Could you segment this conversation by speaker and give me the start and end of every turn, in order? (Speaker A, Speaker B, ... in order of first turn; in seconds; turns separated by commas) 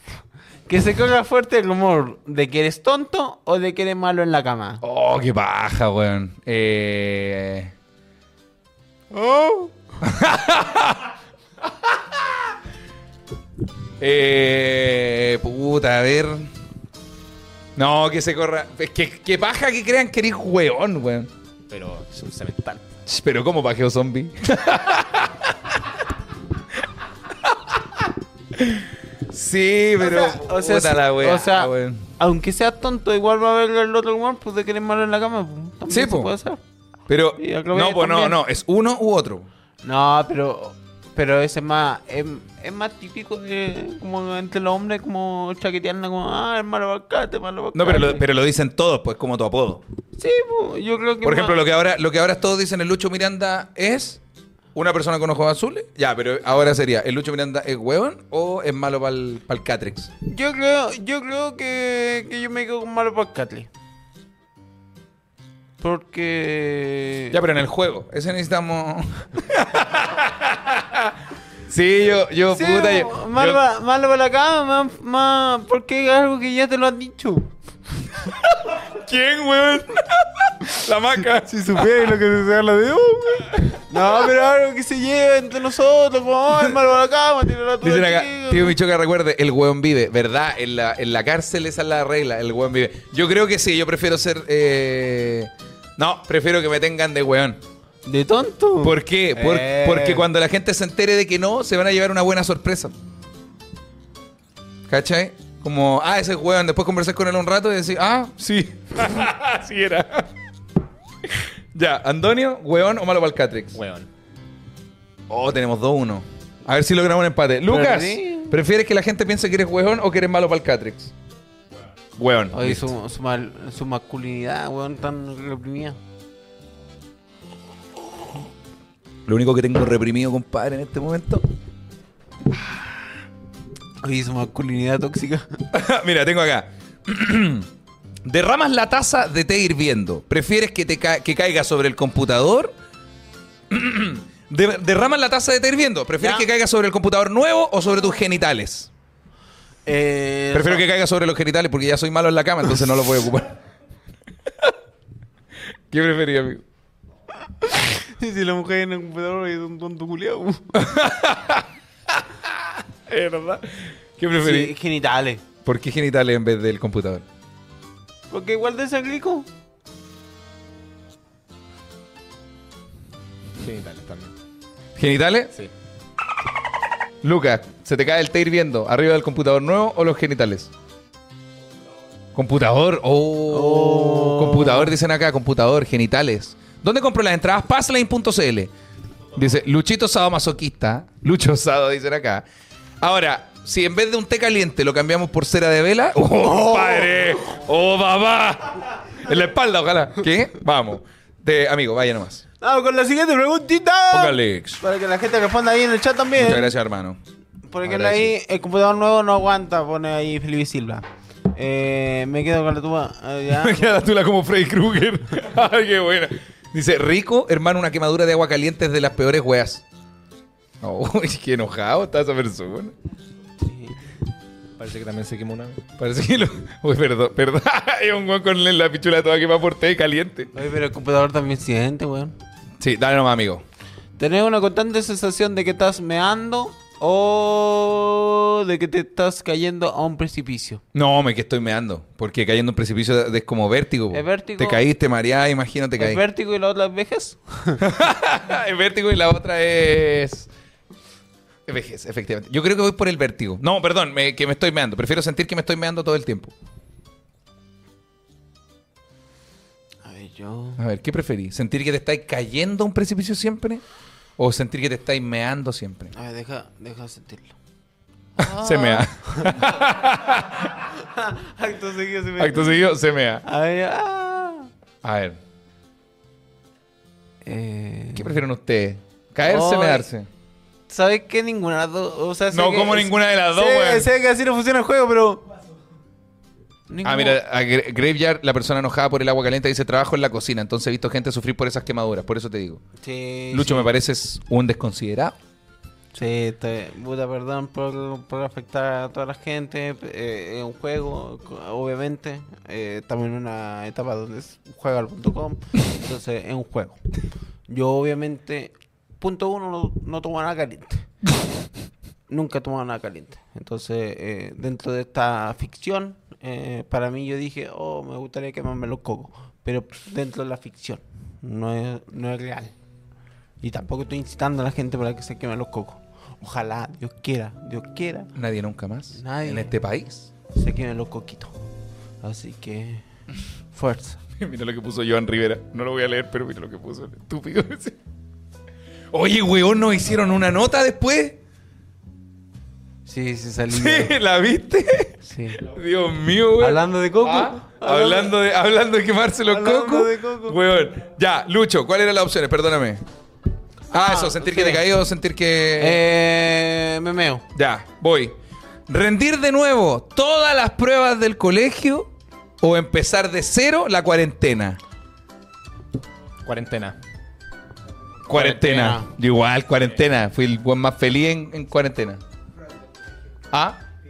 Speaker A: 0.7-4.8, Speaker B: 4.8-7.7, Speaker A: 9.1-9.7, Speaker B: 10.0-11.1, Speaker B: 11.7-12.3, Speaker B: 14.0-16.5, Speaker B: 17.8-21.3, Speaker B: 23.1-25.8, Speaker B: 27.4-27.8, Speaker B: 28.5-32.0, Speaker A: 30.0-36.6, Speaker B: 35.9-36.3, Speaker B: 37.1-39.5, Speaker A: 37.4-38.4, Speaker A: 39.8-48.2, Speaker B: 47.7-49.8, Speaker A: 50.2-51.6, Speaker B: 51.2-54.2, Speaker B: 54.7-60.1, Speaker A: 60.3-63.7, Speaker A: 65.8-67.4, Speaker B: 67.3-71.2, Speaker B: 71.7-73.6, Speaker A: 72.5-77.5, Speaker B: 78.4-81.9, Speaker A: 81.4-88.8, Speaker B: 87.8-97.6, Speaker A: 98.0-100.2, Speaker B: 98.8-102.9, Speaker B: 104.9-110.3, Speaker B: 111.3-113.8, Speaker C: 113.8-114.1, Speaker B: 115.3-121.1, Speaker A: 117.7-118.5, Speaker B: 122.2-122.9, Speaker A: 122.5-126.0, Speaker B: 129.2-131.4, Speaker A: 134.0-135.6, Speaker B: 135.7-137.7, Speaker B: 138.2-142.7, Speaker B: 143.7-148.9, Speaker A: 146.2-146.4, Speaker A: 149.8-150.9, Speaker B: 150.5-153.6, Speaker B: 155.9-156.6, Speaker A: 157.6-160.7, Speaker B: 160.7-164.7, Speaker A: 164.4-165.4, Speaker B: 165.6-167.2, Speaker A: 168.3-169.5, Speaker C: 173.6-174.3, Speaker B: 174.9-175.5, Speaker B: 177.2-180.7, Speaker B: 182.3-188.7, Speaker A: 183.5-184.9, Speaker B: 189.3-192.4, Speaker B: 193.0-202.4, Speaker A: 196.4-197.1, Speaker A: 202.6-206.7, Speaker B: 204.1-204.8, Speaker B: 206.3-207.2, Speaker A: 207.7-214.0, Speaker B: 207.8-208.3, Speaker B: 213.5-219.8, Speaker B: 220.8-222.9, Speaker A: 223.6-224.0, Speaker C: 224.8-225.8, Speaker B: 226.0-230.5, Speaker A: 230.5-232.3, Speaker B: 232.8-233.6, Speaker A: 234.2-240.8, Speaker B: 240.9-246.2, Speaker A: 244.1-244.8, Speaker A: 246.0-247.8, Speaker B: 247.8-250.5, Speaker B: 251.7-256.5, Speaker A: 260.0-260.8, Speaker B: 260.8-263.8, Speaker B: 264.4-266.1, Speaker A: 266.1-267.5, Speaker A: 268.4-269.7, Speaker B: 268.4-270.7, Speaker A: 270.8-272.8, Speaker B: 272.4-273.4, Speaker A: 273.4-274.7, Speaker B: 275.0-275.4, Speaker A: 277.4-278.4, Speaker B: 278.1-280.3, Speaker A: 279.4-280.1, Speaker A: 280.9-285.4, Speaker B: 282.5-284.1, Speaker A: 286.9-287.4, Speaker B: 287.0-292.8, Speaker A: 293.0-293.9, Speaker B: 293.5-295.4, Speaker A: 296.1-307.0, Speaker A: 307.7-311.1, Speaker A: 312.3-322.7, Speaker A: 323.6-328.3, Speaker B: 328.3-330.3, Speaker A: 329.1-329.7, Speaker A: 330.5-331.6, Speaker A: 332.2-333.0, Speaker A: 333.7-334.2, Speaker B: 334.4-338.0, Speaker B: 339.1-341.4, Speaker A: 343.1-344.1, Speaker B: 343.7-353.0, Speaker A: 345.2-345.6, Speaker A: 346.6-348.4, Speaker A: 349.5-350.6, Speaker B: 353.9-356.0, Speaker A: 353.9-354.8, Speaker A: 355.8-357.4, Speaker B: 357.5-358.4, Speaker B: 358.9-362.1, Speaker B: 362.6-364.8, Speaker C: 366.4-366.9, Speaker B: 368.3-372.2, Speaker A: 368.3-369.1, Speaker B: 373.5-373.8